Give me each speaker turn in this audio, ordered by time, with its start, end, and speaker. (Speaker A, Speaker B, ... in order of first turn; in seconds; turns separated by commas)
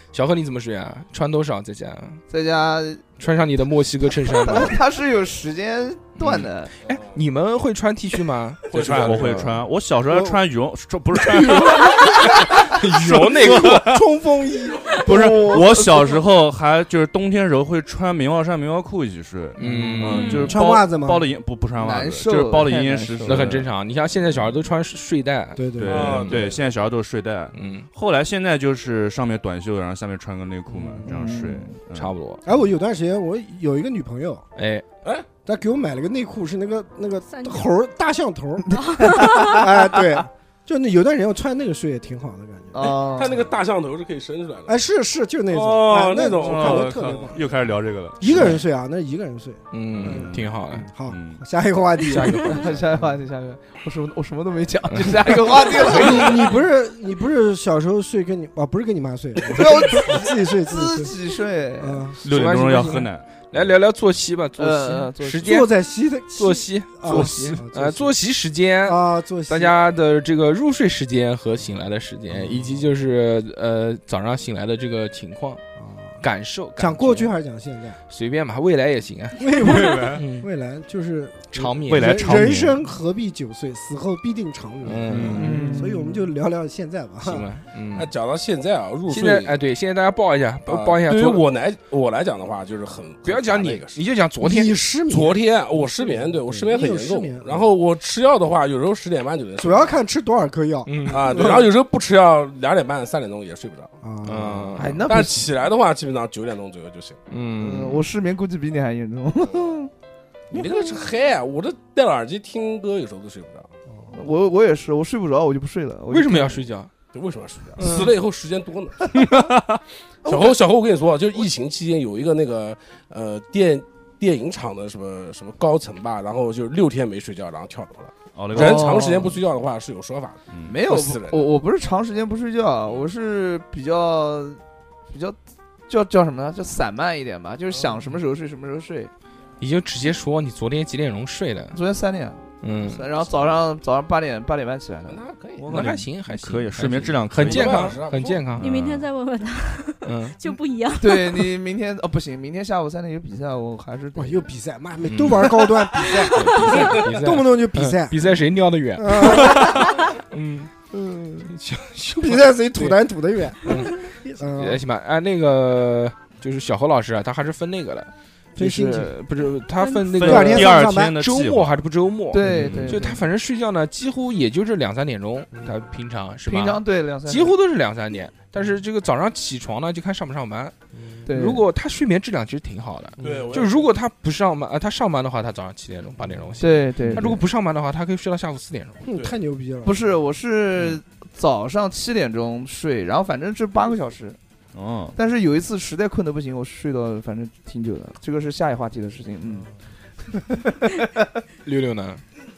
Speaker A: 0.1-2.2, Speaker B: 2.3-3.0, Speaker A: 3.2-4.8, Speaker B: 4.1-6.7, Speaker A: 6.2-9.6, Speaker C: 6.8-7.2, Speaker C: 8.7-9.6, Speaker D: 8.7-14.1, Speaker E: 10.1-10.4, Speaker E: 11.5-12.3, Speaker A: 11.6-13.9, Speaker E: 13.1-15.6, Speaker D: 15.0-23.7, Speaker B: 15.1-16.2, Speaker A: 19.6-20.5, Speaker E: 19.6-21.2, Speaker B: 21.8-23.5, Speaker A: 23.2-26.5, Speaker E: 25.6-26.2, Speaker D: 25.8-32.1, Speaker C: 25.9-26.7, Speaker A: 27.5-27.9, Speaker B: 31.0-31.8, Speaker A: 31.9-32.4, Speaker E: 32.4-34.5, Speaker A: 34.6-34.9, Speaker E: 35.5-43.0, Speaker F: 37.3-37.6, Speaker B: 38.7-39.6, Speaker B: 42.7-43.4, Speaker C: 43.1-44.8, Speaker E: 44.7-47.4, Speaker C: 45.5-47.4, Speaker B: 46.4-46.9, Speaker D: 46.5-48.6, Speaker E: 48.2-50.3, Speaker A: 49.7-50.9, Speaker D: 49.9-51.4, Speaker E: 50.9-52.7, Speaker A: 52.1-52.6, Speaker B: 52.5-56.5, Speaker E: 55.7-61.1, Speaker A: 55.9-56.3, Speaker B: 59.4-62.1, Speaker E: 61.8-62.2, Speaker D: 62.2-63.2, Speaker A: 62.2-65.7, Speaker B: 64.6-65.6, Speaker E: 65.4-68.2, Speaker A: 66.3-75.6, Speaker B: 67.1-67.5, Speaker E: 68.8-69.7, Speaker E: 72.3-72.8, Speaker E: 75.8-76.2, Speaker A: 76.2-77.3, Speaker E: 76.8-78.0, Speaker A: 78.1-80.5, Speaker E: 79.4-87.5, Speaker D: 79.6-80.2, Speaker A: 81.5-82.3, Speaker D: 81.9-82.8, Speaker A: 84.8-85.8, Speaker D: 85.2-85.6, Speaker B: 85.3-86.2, Speaker A: 87.2-88.1, Speaker C: 87.9-89.6, Speaker A: 89.1-91.4, Speaker C: 90.7-94.0, Speaker A: 93.2-94.7, Speaker E: 94.4-97.7, Speaker C: 95.1-100.0, Speaker E: 99.6-101.6, Speaker A: 100.8-101.5, Speaker C: 101.1-103.9, Speaker E: 104.0-105.0, Speaker A: 104.2-104.9, Speaker B: 104.8-105.5, Speaker C: 105.0-107.2, Speaker A: 107.3-108.0, Speaker B: 107.6-109.9, Speaker C: 110.5-113.7, Speaker B: 114.1-116.6, Speaker A: 116.1-116.9, Speaker C: 117.1-119.0, Speaker D: 119.1-119.8, Speaker B: 120.2-120.5, Speaker C: 120.2-131.5, Speaker D: 128.3-128.9, Speaker B: 128.5-129.4, Speaker D: 130.5-130.8, Speaker B: 130.7-135.4, Speaker B: 135.9-139.1, Speaker C: 137.7-138.0, Speaker A: 139.6-141.8, Speaker B: 141.7-145.2, Speaker A: 142.6-143.1, Speaker C: 145.1-145.8, Speaker D: 145.6-148.0, Speaker A: 145.7-148.7, Speaker C: 147.3-148.4, Speaker D: 148.6-149.1, Speaker F: 148.6-151.5, Speaker A: 150.0-150.3, Speaker B: 151.0-154.4, Speaker E: 154.1-158.2, Speaker A: 155.0-155.5, Speaker A: 156.3-163.0, Speaker E: 159.0-159.9, Speaker E: 160.9-161.4, Speaker E: 162.2-164.8, Speaker A: 163.6-168.1, Speaker E: 168.6-169.1, Speaker B: 168.6-169.0, Speaker A: 168.6-180.7, Speaker F: 169.8-170.1, Speaker D: 170.1-171.8, Speaker E: 170.2-171.2, Speaker B: 172.3-173.2, Speaker D: 172.4-173.0, Speaker E: 172.5-173.1, Speaker B: 176.4-177.6, Speaker E: 180.9-181.3, Speaker B: 181.2-181.6, Speaker A: 181.3-189.0, Speaker E: 183.2-183.5, Speaker C: 183.2-183.9, Speaker B: 186.6-187.4, Speaker E: 189.0-190.0, Speaker B: 189.8-194.4, Speaker D: 194.7-195.1, Speaker B: 195.1-199.7, Speaker B: 200.3-201.1, Speaker A: 201.6-202.2